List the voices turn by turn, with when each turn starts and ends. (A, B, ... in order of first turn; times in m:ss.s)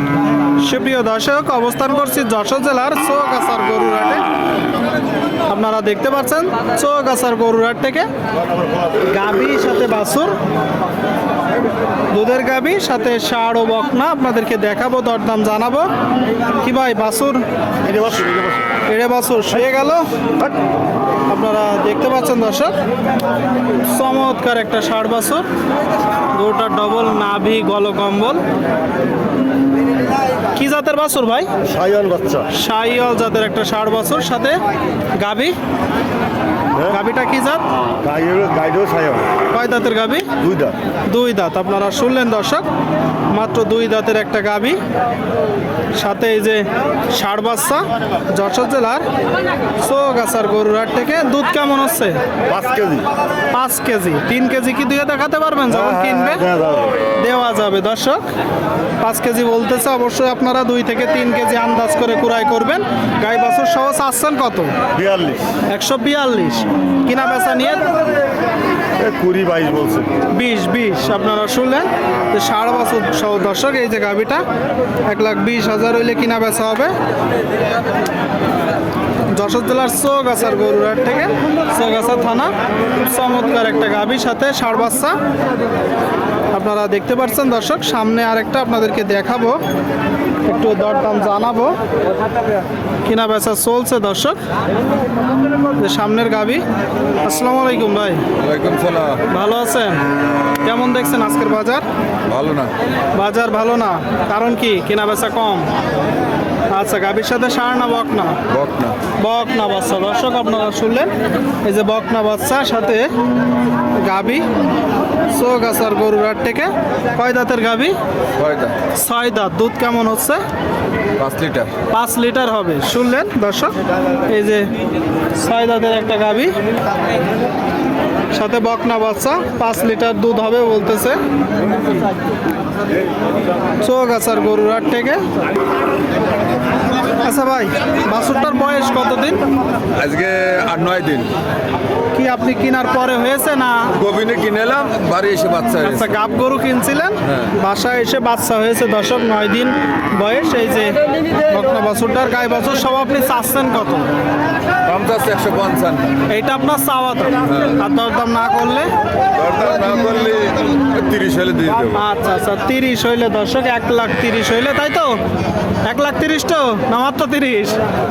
0:00.6-0:04.2 A
0:05.5-0:08.1 A
0:09.0-0:10.4 A
0:12.1-0:15.9 A
0:16.6-0:17.4 A
0:17.8-0:18.7 B
0:18.9-0:20.0 A
0:21.3-0:22.7 A
0:23.9-0:25.5 A
0:26.3-0:28.4 A
0:30.5-0:31.5 A
0:31.7-0:32.5 B
0:32.5-0:34.6 A
0:35.2-0:35.6 A
0:36.8-0:37.6 A
0:38.0-0:39.3 B
0:39.5-0:40.3 A
0:40.4-0:40.7 B
0:41.1-0:42.7 A
0:43.3-0:44.8 A
0:45.9-0:49.0 A
0:49.8-0:52.2 A
0:52.5-0:53.1 B
0:53.5-0:56.5 A
0:55.7-0:57.0 B
0:57.1-0:58.3 A
0:59.0-1:04.7 A
1:04.9-1:05.4 B
1:05.7-1:08.0 A
1:09.0-1:10.1 B
1:10.3-1:14.4 A
1:15.1-1:16.9 A
1:19.3-1:25.2 A
1:26.5-1:29.6 A
1:30.4-1:31.8 A
1:33.0-1:34.4 A
1:35.7-1:36.6 A
1:37.2-1:38.2 A
1:38.4-1:39.2 C
1:39.3-1:40.0 A
1:40.6-1:41.8 A
1:42.3-1:42.7 C
1:43.1-1:45.7 A
1:46.7-1:48.4 A
1:48.5-1:49.0 C
1:49.2-1:51.1 A
1:51.6-1:53.1 A
1:53.9-1:54.4 A
1:55.3-1:58.0 A
1:58.4-1:58.8 C
1:58.9-2:00.4 A
2:01.2-2:01.7 C
2:01.9-2:04.7 A
2:05.3-2:06.6 A
2:08.3-2:11.2 A
2:13.8-2:15.2 A
2:17.2-2:19.4 A
2:19.9-2:21.3 C
2:22.1-2:23.9 A
2:24.0-2:26.1 C
2:25.8-2:34.1 A
2:34.8-2:36.1 C
2:36.3-2:38.9 A
2:37.5-2:37.7 C
2:39.3-2:42.0 C
2:41.9-2:45.2 A
2:45.8-2:47.8 A